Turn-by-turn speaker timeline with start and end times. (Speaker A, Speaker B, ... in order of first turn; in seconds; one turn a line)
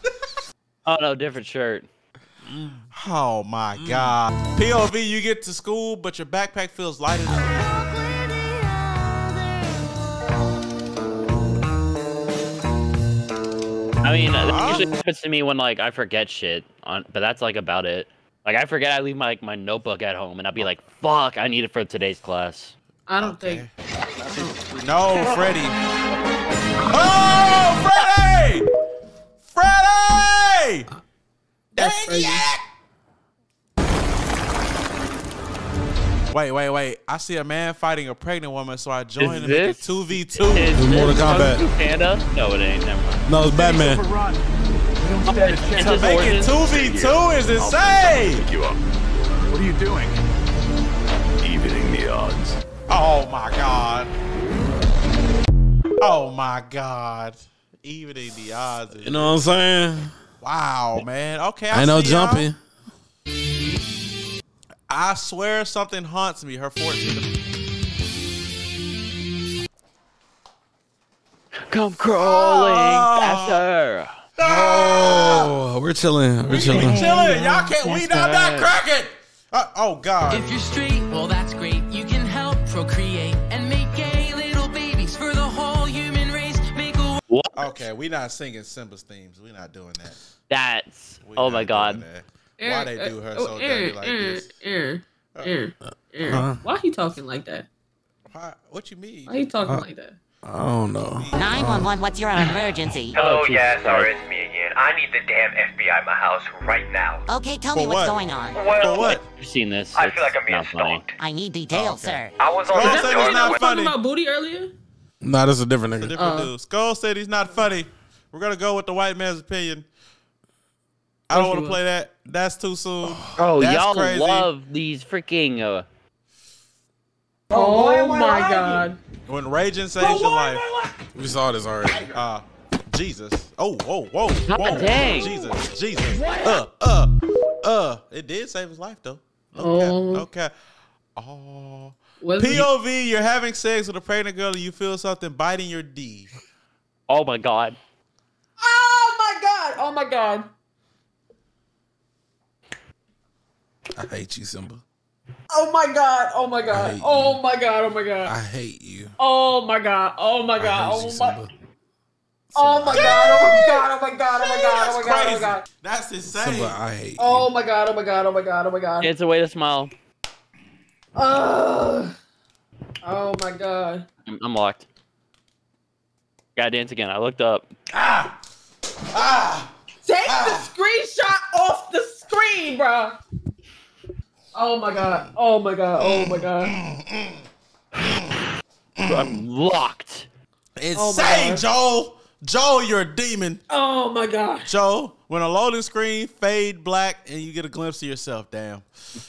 Speaker A: 0.8-1.9
Speaker B: 2.5-2.8
Speaker C: 2.9-7.8
Speaker B: 3.8-4.1
Speaker A: 14.0-22.7
Speaker C: 14.4-14.9
Speaker D: 23.1-23.6
Speaker C: 23.2-23.7
Speaker C: 24.8-25.8
Speaker C: 26.9-28.6
Speaker C: 29.5-30.9
Speaker C: 31.7-32.6
Speaker D: 31.8-32.4
Speaker C: 36.3-40.7
Speaker A: 39.2-39.8
Speaker A: 40.5-43.2
Speaker B: 40.7-41.6
Speaker B: 43.2-44.0
Speaker E: 43.5-44.4
Speaker E: 45.0-46.3
Speaker A: 45.2-46.5
Speaker C: 45.8-48.4
Speaker E: 49.5-50.1
Speaker C: 52.9-54.1
Speaker C: 56.0-59.4
Speaker B: 59.0-60.1
Speaker C: 60.4-62.5
Speaker B: 61.7-62.6
Speaker C: 64.9-67.3
Speaker A: 71.7-74.1
Speaker C: 72.2-73.6
Speaker C: 74.4-75.5
Speaker B: 74.4-77.2
Speaker C: 76.5-80.5
Speaker A: 77.8-78.7
Speaker F: 80.3-87.2
Speaker A: 87.3-87.7
Speaker C: 87.5-90.2
Speaker A: 90.5-92.0
Speaker C: 91.2-94.5
Speaker D: 92.6-97.7
Speaker B: 96.2-96.6
Speaker C: 98.3-99.3
Speaker D: 99.3-100.2
Speaker B: 100.4-101.9
Speaker C: 101.2-101.6
Speaker G: 101.3-103.1
Speaker H: 103.1-107.2
Speaker A: 103.2-104.1
Speaker G: 107.3-109.1
Speaker C: 107.7-108.2
Speaker H: 108.5-109.1
Speaker C: 108.7-109.2
Speaker A: 109.3-111.0
Speaker H: 110.0-111.1
Speaker G: 111.2-112.3
Speaker C: 111.7-113.9
Speaker H: 112.4-113.6
Speaker D: 112.8-114.7
Speaker B: 115.2-116.1
Speaker C: 116.0-119.9
Speaker D: 116.1-116.5
Speaker C: 121.3-124.5
Speaker D: 121.3-121.8
Speaker A: 123.4-125.8
Speaker D: 127.5-129.0
Speaker E: 127.5-128.8
Speaker C: 129.3-130.6
Speaker E: 130.0-130.9
Speaker B: 131.1-132.1
Speaker C: 132.1-137.1
Speaker A: 134.5-135.3
Speaker C: 137.6-140.5
Speaker D: 139.6-140.2
Speaker C: 141.2-146.3
Speaker D: 142.2-142.7
Speaker A: 147.1-147.8
Speaker D: 148.6-150.5
Speaker B: 154.0-154.8
Speaker D: 155.5-158.3
Speaker B: 156.7-157.4
Speaker B: 158.2-159.1
Speaker D: 159.2-161.4
Speaker B: 160.6-161.5
Speaker B: 162.5-163.4
Speaker D: 162.5-165.6
Speaker C: 162.9-163.8
Speaker C: 164.3-166.8
Speaker B: 166.3-167.4
Speaker D: 167.2-169.1
Speaker A: 169.0-169.9
Speaker D: 171.2-172.1
Speaker D: 173.0-174.0
Speaker A: 174.3-174.8
Speaker A: 176.6-177.7
Speaker C: 177.9-178.3
Speaker C: 179.1-179.7
Speaker D: 180.0-183.2
Speaker C: 180.3-180.6
Speaker D: 184.5-186.7
Speaker C: 186.0-187.4
Speaker C: 189.0-189.4
Speaker A: 189.1-190.3
Speaker C: 190.8-193.6
Speaker D: 190.9-191.6
Speaker D: 193.7-194.7
Speaker C: 194.6-198.8